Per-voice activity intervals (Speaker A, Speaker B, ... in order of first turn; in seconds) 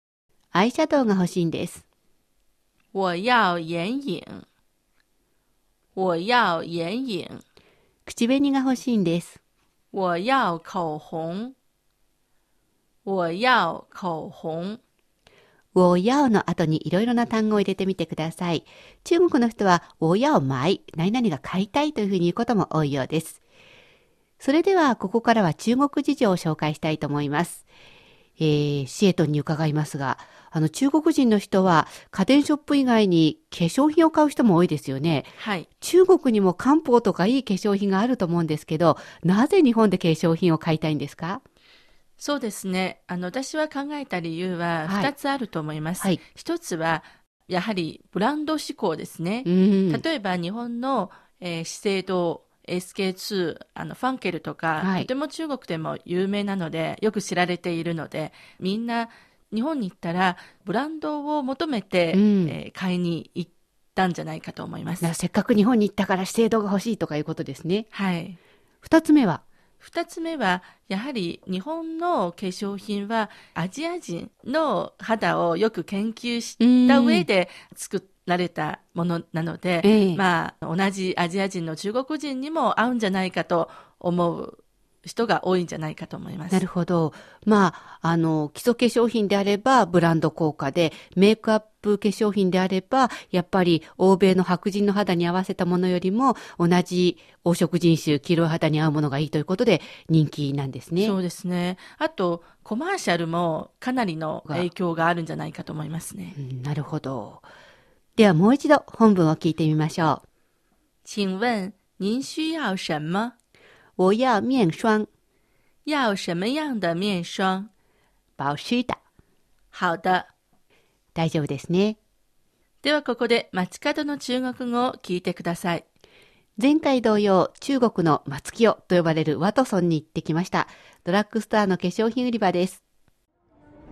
Speaker A: 0.5-1.8, 8.1-9.4, 15.7-23.4, 24.4-27.6, 28.4-35.3, 35.8-41.4, 44.9-45.1, 49.4-50.0, 54.8-55.1, 62.1-62.5, 65.0-67.9, 68.8-69.4, 76.6-77.3, 79.8-80.2, 86.5-101.2, 106.4-107.4, 108.2-110.2, 114.0-115.1, 118.4-119.0, 121.1-122.0, 126.6-132.8
Speaker B: 2.9-4.4, 5.9-7.4, 9.9-11.5, 13.0-14.8, 35.4-35.7, 42.2-65.1, 67.9-68.4, 69.8-86.6, 101.0-106.3, 111.0-113.3, 115.8-117.7, 119.7-120.3, 122.8-125.8